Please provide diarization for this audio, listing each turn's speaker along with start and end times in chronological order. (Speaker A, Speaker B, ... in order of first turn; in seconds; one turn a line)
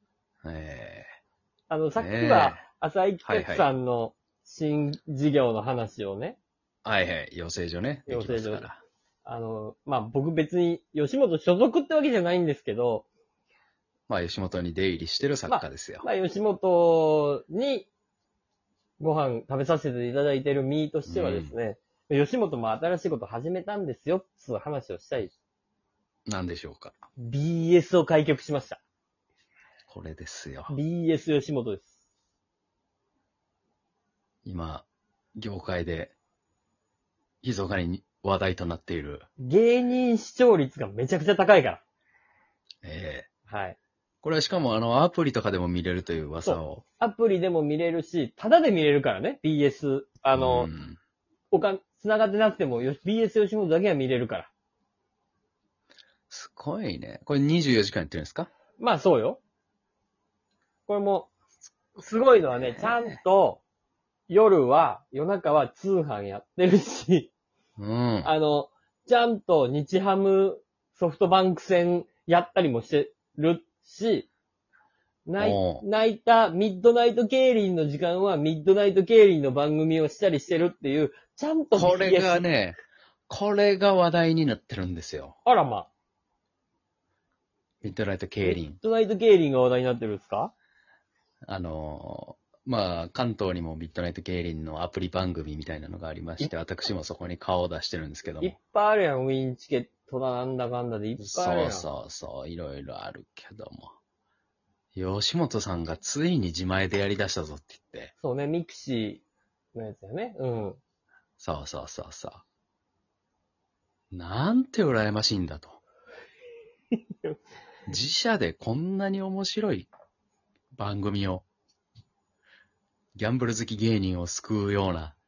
Speaker A: 0.4-1.1
Speaker B: 1.7-6.4
Speaker A: 2.0-2.6
Speaker A: 3.2-3.7
Speaker A: 6.8-8.8
Speaker B: 8.1-8.7
Speaker B: 9.2-13.1
Speaker A: 14.1-16.1
Speaker B: 15.5-17.9
Speaker B: 19.0-25.3
Speaker A: 21.1-21.6
Speaker A: 26.3-27.0
Speaker B: 27.2-28.8
Speaker A: 29.9-30.8
Speaker B: 30.7-31.9
Speaker A: 34.4-34.8
Speaker A: 35.4-36.1
Speaker A: 37.4-39.2
Speaker B: 39.4-41.8
Speaker A: 42.8-43.3
Speaker B: 43.5-43.8
Speaker A: 44.2-46.8
Speaker B: 46.4-50.7
Speaker A: 50.3-51.0
Speaker B: 51.5-54.5
Speaker A: 56.3-58.5
Speaker B: 58.8-59.4
Speaker B: 60.9-61.3
Speaker B: 62.0-63.6
Speaker A: 62.5-63.1
Speaker B: 64.3-67.3
Speaker A: 67.8-68.3
Speaker B: 68.2-74.3
Speaker B: 75.2-82.4
Speaker A: 75.4-75.8
Speaker A: 81.7-82.8
Speaker A: 83.3-85.3
Speaker B: 85.4-85.9
Speaker A: 87.8-88.8
Speaker B: 88.4-90.5
Speaker A: 91.5-98.5
Speaker B: 98.4-101.9
Speaker A: 101.2-104.0
Speaker A: 104.9-108.1
Speaker B: 108.2-109.2
Speaker B: 109.7-110.8
Speaker A: 111.4-112.4
Speaker A: 114.1-115.8
Speaker A: 117.9-119.9
Speaker A: 120.8-121.4
Speaker A: 123.2-125.1